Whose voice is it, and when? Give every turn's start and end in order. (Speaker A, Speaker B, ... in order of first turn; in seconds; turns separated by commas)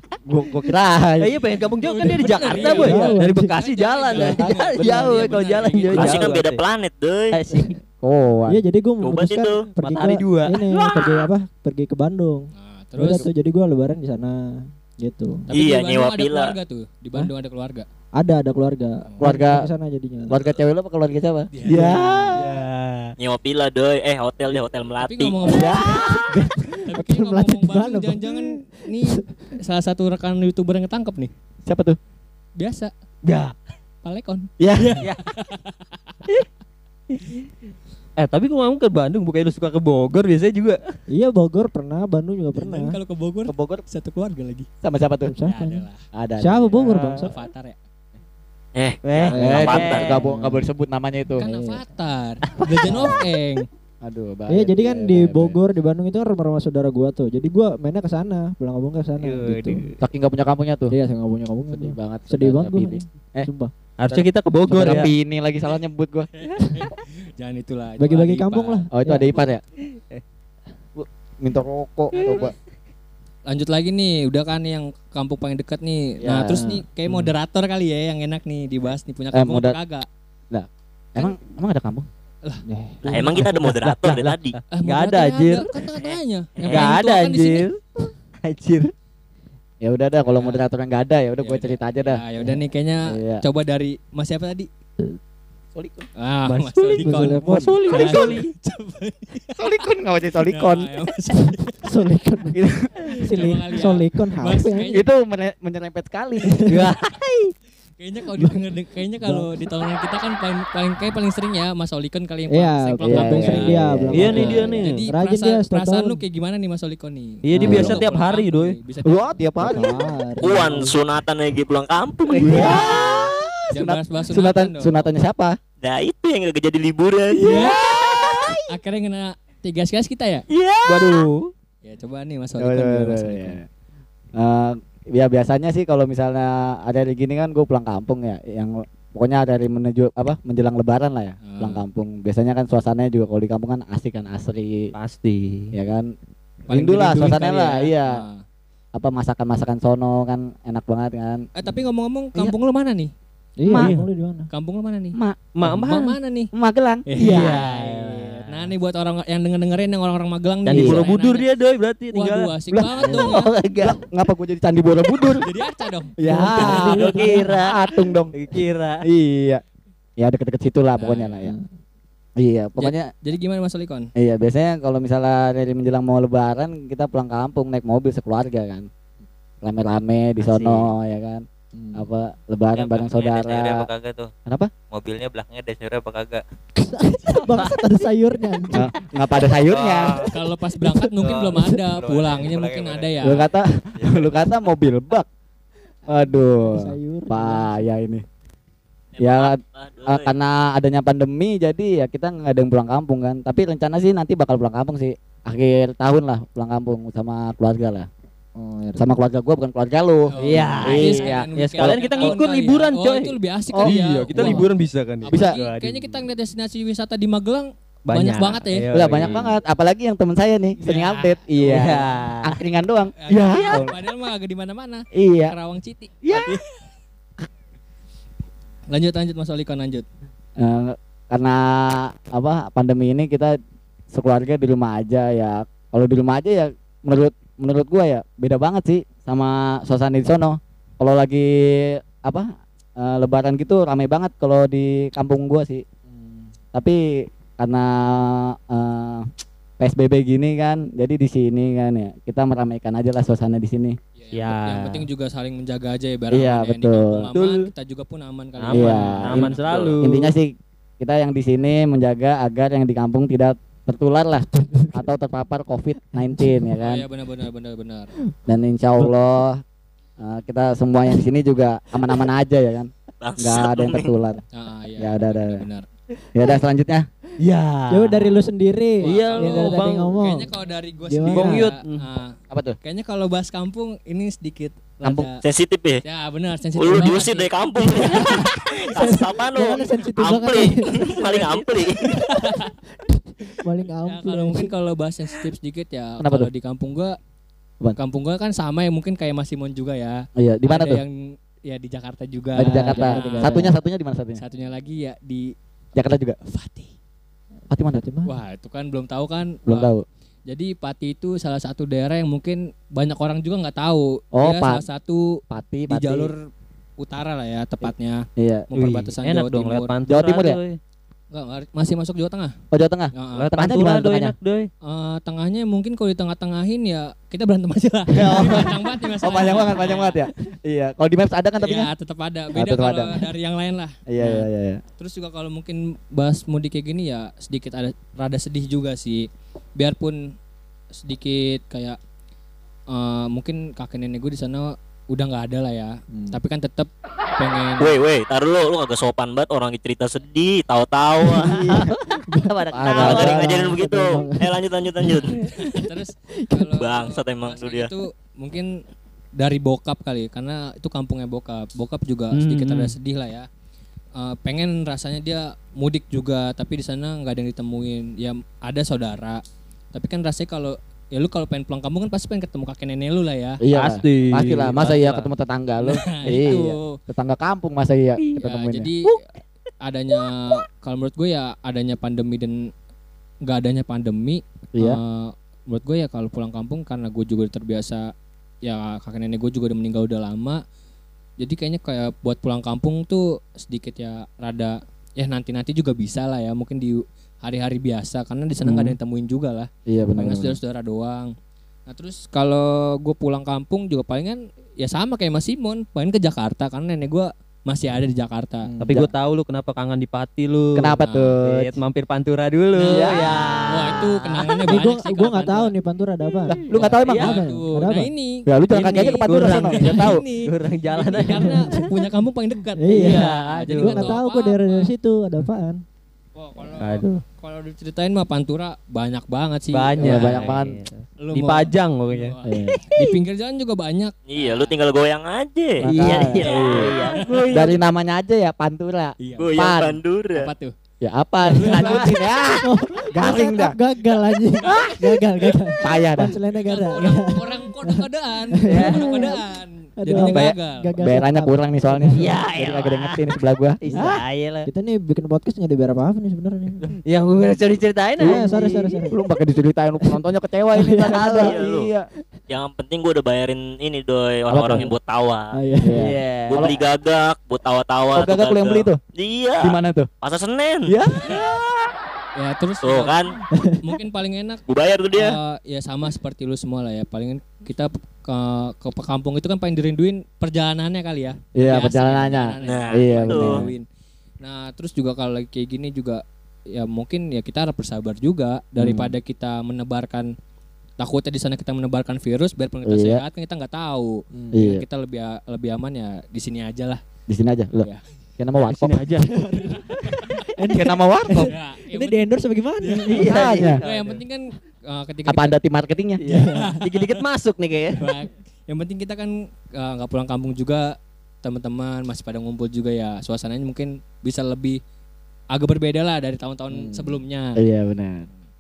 Speaker A: 0.2-1.4, Speaker B: 1.2-6.6, Speaker C: 1.8-6.2, Speaker D: 2.5-3.5, Speaker A: 4.1-5.2, Speaker E: 5.9-7.4, Speaker B: 7.3-7.8, Speaker A: 8.0-8.6, Speaker D: 8.5-15.5, Speaker E: 9.0-9.6, Speaker B: 9.8-10.7, Speaker E: 10.9-11.2, Speaker C: 12.6-13.3, Speaker C: 15.5-17.9, Speaker E: 15.5-16.5, Speaker D: 18.2-20.3, Speaker A: 19.2-19.7, Speaker A: 20.3-22.5, Speaker C: 21.5-21.9, Speaker D: 21.7-22.4, Speaker B: 22.4-23.1, Speaker E: 23.2-25.7, Speaker C: 25.0-26.1, Speaker A: 25.4-26.7, Speaker D: 26.1-28.5, Speaker C: 26.9-31.3, Speaker A: 31.7-32.0, Speaker C: 32.6-32.9, Speaker B: 33.2-33.5, Speaker C: 34.0-35.9, Speaker A: 34.6-35.0, Speaker B: 38.2-40.8, Speaker D: 41.1-43.0, Speaker C: 42.5-44.7, Speaker A: 43.5-43.8, Speaker A: 44.8-45.3, Speaker D: 45.3-45.9, Speaker C: 45.4-46.0, Speaker A: 46.1-47.3, Speaker D: 46.4-47.3, Speaker C: 47.2-47.8, Speaker E: 48.8-50.1, Speaker B: 49.0-50.2, Speaker D: 49.4-50.7, Speaker A: 49.4-51.5, Speaker D: 51.4-51.8, Speaker C: 51.4-53.6, Speaker A: 52.9-53.3, Speaker A: 54.0-55.6, Speaker D: 54.5-59.9, Speaker B: 59.2-60.0, Speaker A: 60.0-61.0, Speaker D: 60.9-63.7, Speaker A: 61.7-63.5, Speaker B: 64.0-65.1, Speaker A: 64.1-66.3, Speaker C: 66.4-68.8, Speaker D: 68.0-69.4, Speaker A: 68.9-69.6, Speaker B: 69.9-70.2, Speaker A: 71.0-72.5, Speaker B: 72.1-72.5, Speaker C: 73.5-80.1, Speaker A: 76.2-76.6, Speaker D: 76.6-77.2, Speaker A: 79.3-79.8, Speaker A: 80.5-82.1, Speaker D: 82.7-83.2, Speaker E: 83.0-84.6, Speaker B: 83.1-85.8, Speaker C: 84.7-87.7, Speaker B: 86.6-88.9, Speaker A: 89.8-92.2, Speaker C: 90.3-90.7, Speaker C: 91.4-94.7, Speaker A: 93.1-93.4, Speaker A: 95.8-96.1, Speaker C: 96.2-99.8, Speaker B: 96.5-98.5, Speaker D: 97.0-98.0, Speaker A: 99.6-100.9, Speaker C: 100.5-101.9, Speaker D: 101.8-102.6, Speaker A: 102.5-103.1, Speaker D: 103.1-105.0, Speaker C: 103.2-105.1, Speaker A: 104.9-106.7, Speaker B: 106.7-107.5, Speaker C: 108.0-113.8, Speaker D: 109.2-109.6, Speaker D: 112.5-116.2, Speaker A: 113.0-114.7, Speaker B: 114.1-115.1, Speaker C: 114.4-119.3, Speaker B: 117.4-118.8, Speaker D: 117.5-118.0, Speaker A: 117.6-118.0, Speaker A: 119.0-120.0, Speaker D: 119.6-121.0, Speaker E: 120.4-123.2, Speaker B: 122.3-123.5, Speaker A: 122.4-123.0, Speaker C: 123.7-125.1, Speaker A: 123.8-125.6, Speaker E: 125.8-128.4, Speaker C: 127.4-127.8, Speaker B: 127.4-128.6, Speaker C: 128.7-130.4, Speaker E: 130.5-131.3, Speaker B: 130.8-131.5, Speaker C: 131.8-133.6, Speaker A: 132.6-133.7, Speaker A: 134.4-144.9, Speaker C: 141.4-141.8, Speaker B: 144.9-145.8, Speaker A: 145.7-146.1, Speaker C: 146.7-148.4, Speaker A: 146.7-148.2, Speaker A: 148.9-151.4, Speaker C: 151.6-153.1, Speaker D: 153.6-154.5, Speaker A: 153.7-154.0, Speaker B: 153.7-154.1, Speaker C: 154.5-156.5, Speaker B: 155.6-156.2, Speaker A: 156.5-157.6, Speaker C: 157.1-161.5, Speaker B: 157.2-158.7, Speaker B: 160.7-162.5, Speaker A: 160.7-161.0, Speaker C: 162.1-163.5, Speaker A: 162.7-165.5, Speaker B: 163.0-164.1, Speaker C: 165.3-166.8, Speaker A: 166.2-168.3, Speaker D: 166.3-167.5, Speaker B: 166.4-169.1, Speaker A: 169.0-169.6, Speaker A: 170.2-171.6, Speaker C: 171.0-171.4, Speaker D: 171.4-171.7, Speaker A: 172.4-173.1, Speaker C: 172.8-174.1, Speaker A: 174.2-178.9, Speaker A: 179.6-181.4, Speaker B: 180.4-180.9, Speaker D: 181.7-182.1, Speaker A: 181.9-183.9, Speaker F: 182.8-184.3, Speaker F: 184.9-186.4, Speaker D: 186.8-188.9, Speaker B: 187.6-187.8, Speaker A: 188.7-190.2, Speaker F: 189.7-190.3, Speaker C: 190.2-193.4, Speaker D: 190.8-191.8, Speaker F: 191.2-194.4, Speaker A: 193.2-195.3, Speaker A: 196.1-198.2, Speaker D: 196.6-197.8, Speaker E: 199.2-200.3, Speaker A: 199.2-208.1, Speaker D: 208.6-209.1, Speaker A: 209.0-212.4, Speaker C: 210.3-214.7, Speaker B: 210.4-216.2, Speaker A: 213.7-214.7, Speaker C: 215.3-218.9, Speaker A: 215.3-215.6, Speaker B: 218.1-219.6, Speaker A: 218.9-224.0, Speaker C: 220.8-221.8, Speaker B: 221.6-222.6, Speaker C: 223.2-226.6, Speaker A: 225.1-225.5, Speaker B: 226.2-226.5, Speaker C: 228.9-230.1, Speaker A: 230.6-233.6, Speaker A: 234.1-242.5, Speaker A: 243.0-245.8, Speaker D: 246.1-246.5, Speaker A: 246.7-247.0, Speaker A: 247.6-249.3, Speaker A: 249.8-254.0, Speaker C: 254.2-259.9, Speaker B: 254.3-255.0, Speaker A: 256.3-257.3, Speaker B: 257.3-257.7, Speaker B: 258.6-260.3, Speaker A: 258.7-267.0, Speaker D: 264.6-265.0, Speaker D: 266.1-266.6, Speaker C: 266.8-268.1, Speaker A: 268.5-269.6, Speaker A: 270.2-274.4, Speaker E: 273.2-274.1, Speaker C: 274.5-275.9, Speaker A: 275.0-275.6, Speaker A: 276.4-277.1, Speaker B: 277.4-278.4, Speaker D: 277.9-280.5, Speaker B: 279.0-280.2, Speaker C: 279.0-285.4, Speaker D: 281.1-281.7, Speaker B: 281.3-282.1, Speaker A: 282.5-282.8, Speaker A: 285.0-285.3, Speaker E: 285.4-286.0, Speaker C: 286.0-288.2, Speaker E: 286.8-292.2, Speaker D: 287.8-291.5, Speaker B: 291.1-291.6, Speaker D: 292.1-294.7, Speaker C: 292.3-292.7, Speaker C: 294.1-297.2, Speaker A: 296.2-296.5, Speaker C: 297.9-301.1, Speaker A: 300.4-301.0, Speaker C: 301.7-303.7, Speaker A: 302.6-304.4, Speaker D: 302.6-303.7, Speaker C: 304.4-305.5, Speaker A: 306.0-306.4, Speaker C: 306.4-306.9, Speaker A: 307.7-308.0, Speaker D: 307.9-308.3, Speaker C: 308.3-309.9, Speaker A: 309.7-310.0, Speaker C: 310.5-315.2, Speaker A: 314.3-314.8, Speaker A: 315.5-316.3, Speaker C: 315.9-316.4, Speaker C: 317.0-319.9, Speaker A: 318.4-318.7, Speaker B: 318.8-320.8, Speaker A: 320.1-320.6, Speaker C: 321.3-322.6, Speaker A: 322.7-324.3, Speaker C: 323.2-323.5, Speaker B: 323.4-324.7, Speaker C: 324.8-330.2, Speaker A: 328.1-331.9, Speaker C: 331.6-334.5, Speaker A: 332.5-333.2, Speaker A: 334.1-334.8, Speaker C: 335.0-339.3, Speaker C: 339.8-340.2, Speaker C: 341.0-342.0, Speaker C: 342.9-348.0, Speaker D: 346.1-346.4, Speaker E: 347.8-351.8, Speaker D: 351.3-352.6, Speaker B: 351.4-353.7, Speaker A: 352.7-353.8, Speaker E: 352.9-355.4, Speaker D: 353.1-355.2, Speaker C: 355.4-358.7, Speaker E: 356.8-357.9, Speaker C: 359.4-363.5, Speaker B: 362.3-362.9, Speaker C: 364.2-369.4, Speaker C: 369.9-373.6, Speaker A: 373.6-378.9, Speaker B: 373.7-375.3, Speaker C: 375.8-377.0, Speaker B: 376.3-376.6, Speaker C: 378.4-379.1, Speaker C: 379.8-382.6, Speaker C: 383.4-388.1, Speaker C: 388.6-390.6, Speaker C: 391.4-401.3, Speaker A: 398.6-399.0, Speaker A: 399.9-400.6, Speaker C: 401.9-408.7, Speaker D: 408.6-409.1, Speaker B: 408.8-414.7, Speaker A: 410.8-411.8, Speaker C: 411.1-411.4, Speaker C: 412.8-415.7, Speaker A: 412.9-413.3, Speaker D: 414.7-416.6, Speaker A: 416.5-417.4, Speaker B: 416.7-417.4, Speaker C: 416.7-424.9, Speaker D: 417.2-418.1, Speaker A: 418.5-420.2, Speaker B: 418.7-421.9, Speaker D: 421.4-421.9, Speaker D: 422.8-423.2, Speaker B: 422.9-424.2, Speaker D: 423.8-425.8, Speaker C: 426.4-430.5, Speaker B: 426.8-427.2, Speaker B: 429.7-432.4, Speaker A: 430.0-430.8, Speaker C: 431.2-434.7, Speaker A: 432.5-432.8, Speaker E: 434.3-435.8, Speaker A: 435.8-436.9, Speaker B: 435.8-437.7, Speaker C: 437.0-437.7, Speaker A: 437.5-440.0, Speaker C: 439.2-439.6, Speaker E: 439.4-440.5, Speaker C: 440.4-440.7, Speaker A: 441.0-443.8, Speaker C: 441.5-442.1, Speaker B: 441.6-442.2, Speaker D: 442.6-448.0, Speaker C: 444.6-445.0, Speaker B: 444.7-445.1, Speaker A: 445.8-446.4, Speaker C: 446.5-450.9, Speaker D: 448.6-449.4, Speaker B: 448.7-449.1, Speaker D: 450.0-452.3, Speaker A: 450.1-454.2, Speaker B: 452.1-453.3, Speaker B: 453.8-454.7, Speaker D: 454.7-457.0, Speaker B: 457.1-459.1, Speaker D: 458.2-459.1, Speaker A: 459.1-462.0, Speaker D: 460.8-461.4, Speaker B: 461.0-461.6, Speaker E: 461.4-461.9, Speaker E: 462.5-465.5, Speaker A: 464.5-464.9, Speaker D: 465.5-466.0, Speaker A: 465.8-466.8, Speaker B: 465.9-466.7, Speaker E: 466.5-470.9, Speaker A: 468.1-469.0, Speaker A: 469.6-470.1, Speaker A: 470.9-471.7, Speaker C: 472.4-473.2, Speaker E: 472.8-473.3, Speaker D: 473.6-473.8, Speaker C: 473.8-474.6, Speaker E: 474.7-475.4, Speaker C: 475.1-483.9, Speaker A: 481.6-483.7, Speaker E: 482.6-483.6, Speaker C: 484.4-490.3, Speaker A: 488.8-489.1, Speaker C: 491.0-497.0, Speaker A: 492.9-493.2, Speaker D: 494.3-494.7, Speaker A: 494.5-494.8, Speaker A: 497.3-497.9, Speaker A: 498.4-499.0, Speaker B: 498.6-499.7, Speaker D: 499.4-499.8, Speaker D: 500.4-503.6, Speaker A: 500.7-501.5, Speaker C: 501.3-502.2, Speaker C: 502.8-505.6, Speaker B: 503.1-504.2, Speaker A: 503.3-503.8, Speaker A: 505.3-506.2, Speaker B: 506.2-508.0, Speaker D: 506.3-506.8, Speaker C: 506.5-507.1, Speaker C: 508.0-514.8, Speaker C: 515.5-517.6, Speaker A: 517.6-518.3